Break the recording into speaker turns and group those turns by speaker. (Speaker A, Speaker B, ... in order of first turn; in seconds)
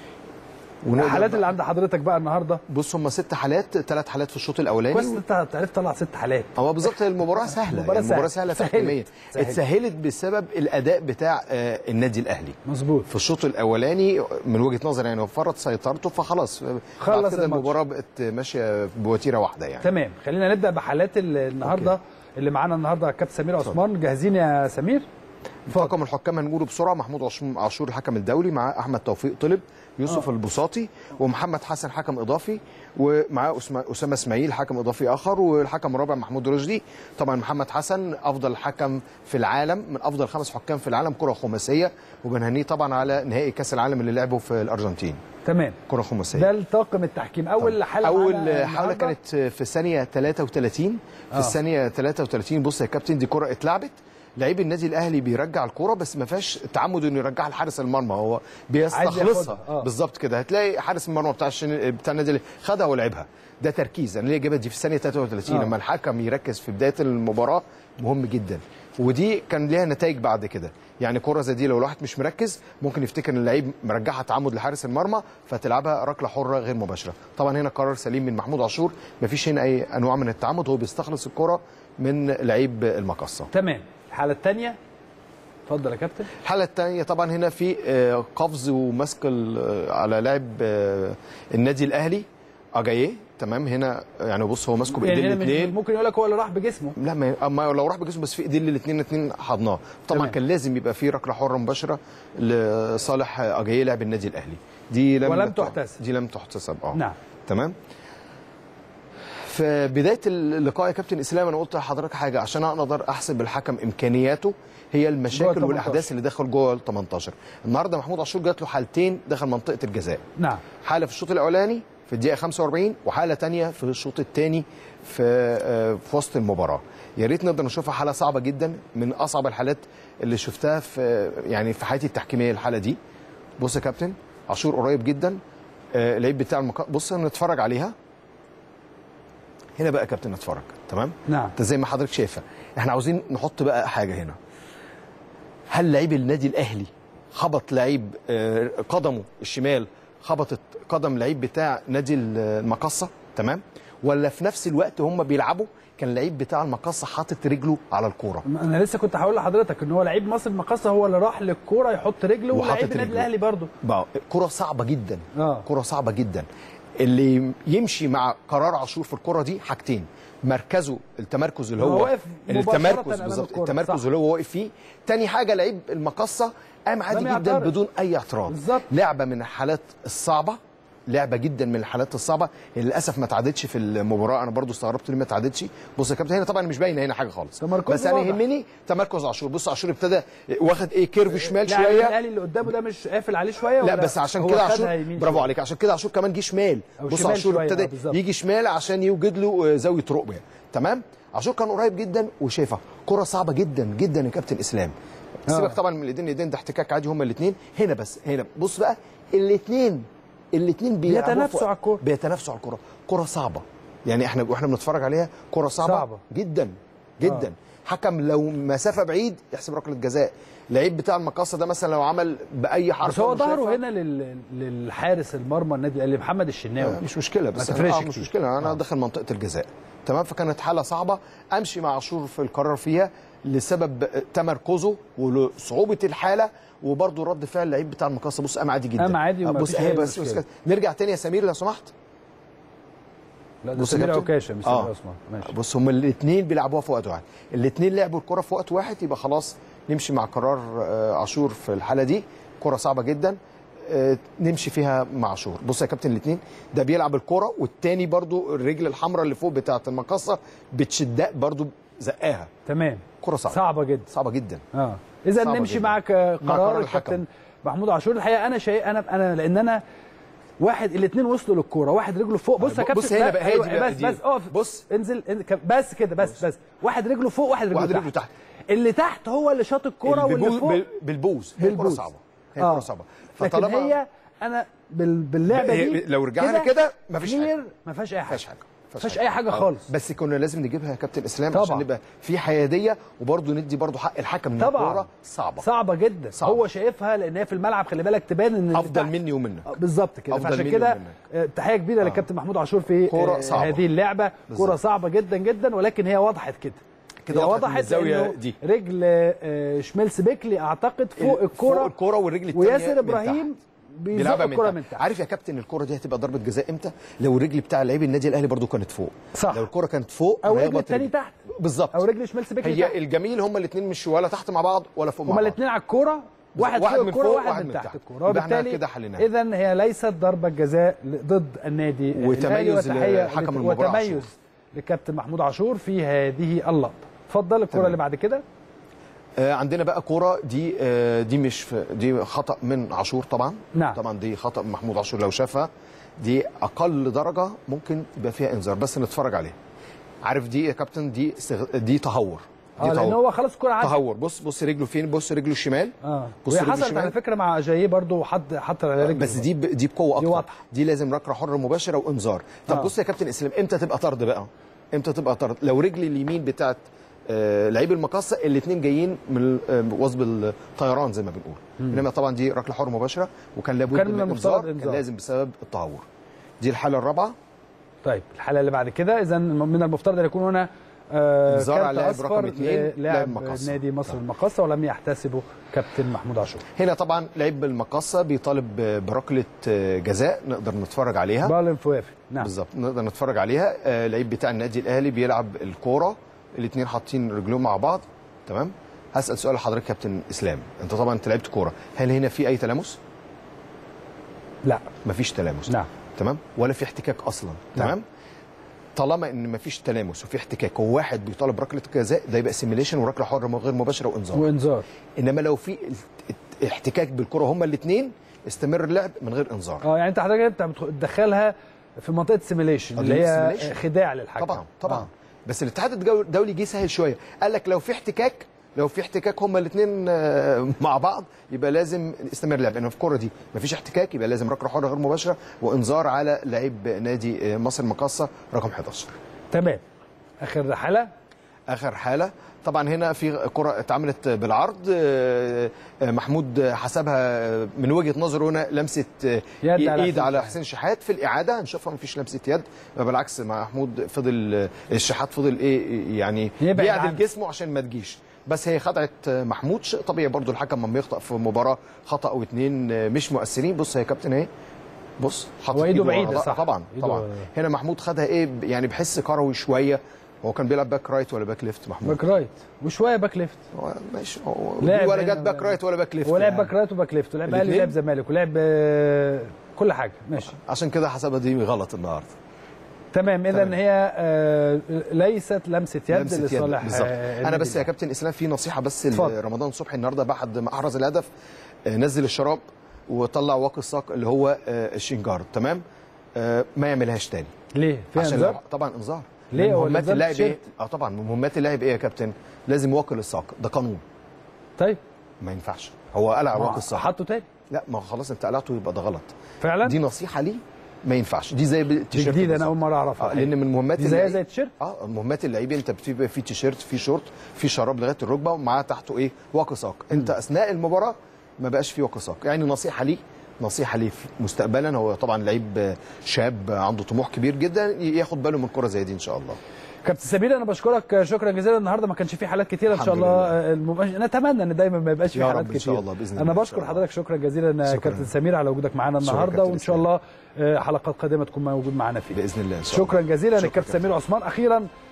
Speaker A: 0.8-1.5, 2.7-5.2, 6.5-12.6, 13.1-19.9, 21.6-21.9, 25.7-45.2, 45.9-46.5, 47.6-83.5, 86.4-92.2, 92.8-95.7, 97.0-107.7, 109.4-120.2, 120.8-133.0, 133.6-135.4, 135.9-137.9, 139.8-144.4, 145.7-158.4, 162.5-163.3, 163.8-166.4, 167.0-180.6, 181.1-192.2, 193.8-204.9, 205.5-223.8, 226.8-241.9, 243.8-244.9, 245.4-262.5, 263.2-264.6, 265.4-267.2, 272.6-274.9, 277.7-278.3, 280.0-284.0, 285.5-287.5, 288.3-295.6, 296.3-296.6, 298.7-299.7, 300.3-301.2, 302.0-302.2, 303.1-303.8, 304.5-304.8, 307.2-308.6, 311.2-313.5, 314.1-322.0, 322.6-325.6, 326.5-329.3, 332.1-334.3, 337.7-338.0, 339.4-349.6, 350.2-353.2, 353.8-355.9, 356.4-357.1, 359.0-376.0, 376.6-377.3, 381.5-384.2, 386.8-391.5, 392.4-403.0, 405.0-408.0, 408.9-414.4, 415.2-419.8, 423.0-423.8, 424.4-439.1, 441.7-464.5, 465.2-472.2, 473.7-476.7, 477.4-477.9, 480.5-482.3, 483.5-483.8, 486.1-491.3, 491.9-495.8, 496.4-497.5, 498.1-504.0, 505.4-507.1, 507.7-529.6, 532.9-533.5, 535.3-537.0, 537.9-538.3, 539.2-540.1, 542.3-544.0
Speaker B: 0.9-2.6, 4.9-9.6, 12.7-13.1, 17.0-17.7, 19.8-25.0, 45.4-45.8, 46.3-49.1, 58.9-59.9, 65.5-65.7, 83.5-84.8, 85.7-86.3, 94.9-97.0, 100.1-100.3, 105.2-106.0, 115.3-116.1, 120.4-120.6, 141.3-141.5, 158.4-163.7, 165.3-165.7, 171.8-174.0, 177.1-177.7, 178.5-178.9, 187.6-188.4, 191.3-195.5, 197.0-198.2, 205.5-205.8, 211.1-212.0, 215.8-216.2, 223.0-227.0, 227.6-228.8, 239.0-240.4, 243.6-245.5, 262.7-264.1, 264.7-269.8, 270.6-278.1, 278.7-280.8, 281.6-282.1, 282.6-288.4, 289.0-289.9, 291.5-291.9, 294.6-295.1, 295.6-299.1, 299.7-311.9, 312.5-315.1, 319.3-319.7, 320.4-322.9, 325.3-338.4, 343.7-344.0, 352.8-353.9, 356.0-359.4, 360.2-360.6, 362.7-362.9, 373.9-375.0, 378.0-386.6, 391.4-392.5, 404.6-404.9, 414.3-414.8, 419.8-425.1, 439.5-439.8, 440.4-441.1, 449.6-450.5, 456.6-457.2, 465.7-467.5, 472.0-473.6, 474.8-480.6, 483.1-487.9, 497.7-498.6, 499.5-500.6, 506.5-507.4, 509.6-510.0, 512.1-514.7, 530.0-542.4, 542.9-544.9